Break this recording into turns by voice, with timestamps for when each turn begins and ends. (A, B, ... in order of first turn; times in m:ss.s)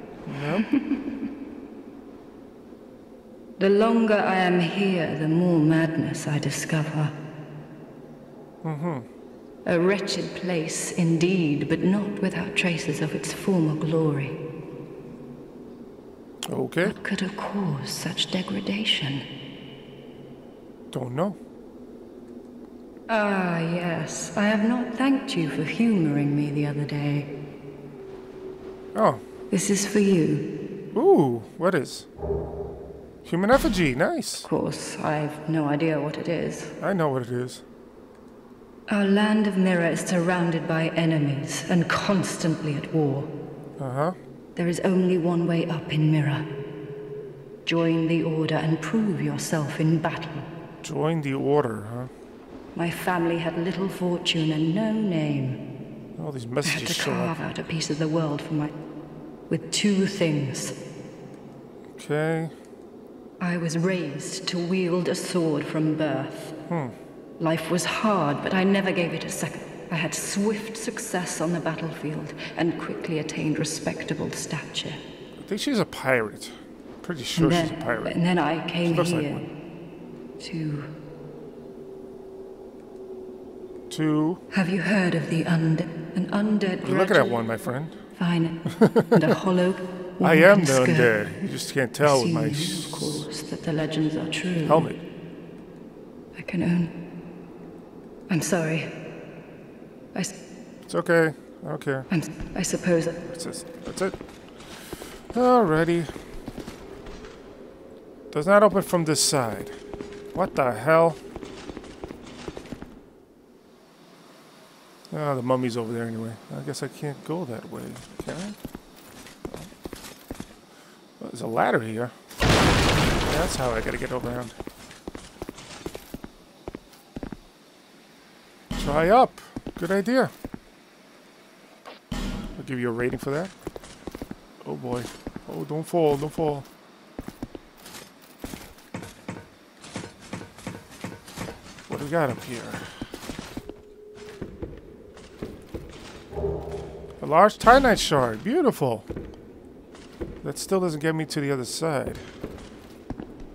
0:00.2-0:00.7 A
0:00.6-0:01.1 B
0:03.6-0:07.1 B
0:08.6-0:09.0 A
0:09.6-0:14.4 B
0:16.5-0:17.0 A
0:16.8-0:19.2 B
0:20.9-0:21.4 A
0:23.1-0:27.3 B
0:28.9-0:29.2 A
0:29.5-0:30.5 B
0:30.9-0:32.1 A
0:33.2-0:34.5 A
0:34.4-0:36.8 B
0:36.8-0:37.6 A
0:38.9-0:43.3 B
0:43.8-0:44.2 A
0:44.6-0:46.5 B
0:47.6-0:50.4 B
0:50.8-0:52.1 A
0:52.8-0:55.6 B
0:56.2-0:57.4 A
0:56.6-0:58.7 B
0:59.5-1:00.8 B
1:02.0-1:02.5 A
1:03.4-1:06.5 B
1:06.7-1:06.9 A
1:07.4-1:15.0 B
1:15.4-1:18.2 A
1:17.4-1:19.5 B
1:18.8-1:19.5 A
1:20.4-1:20.9 B
1:23.9-1:24.4 A
1:24.5-1:27.4 B
1:26.8-1:28.0 A
1:28.2-1:31.2 B
1:28.6-1:29.2 A
1:30.2-1:33.3 A
1:32.0-1:34.9 B
1:34.6-1:35.0 A
1:36.4-1:36.9 B
1:38.3-1:38.9 B
1:40.8-1:42.1 A
1:42.1-1:43.2 B
1:43.2-1:44.1 A
1:45.3-1:46.1 A
1:48.3-1:49.8 A
1:50.3-1:51.2 A
1:55.1-1:58.6 A
2:01.2-2:02.1 A
2:03.2-2:04.6 A
2:08.8-2:10.3 A
2:12.6-2:13.5 A
2:14.6-2:16.7 A
2:21.9-2:22.8 A
2:27.2-2:29.1 A
2:30.4-2:32.2 A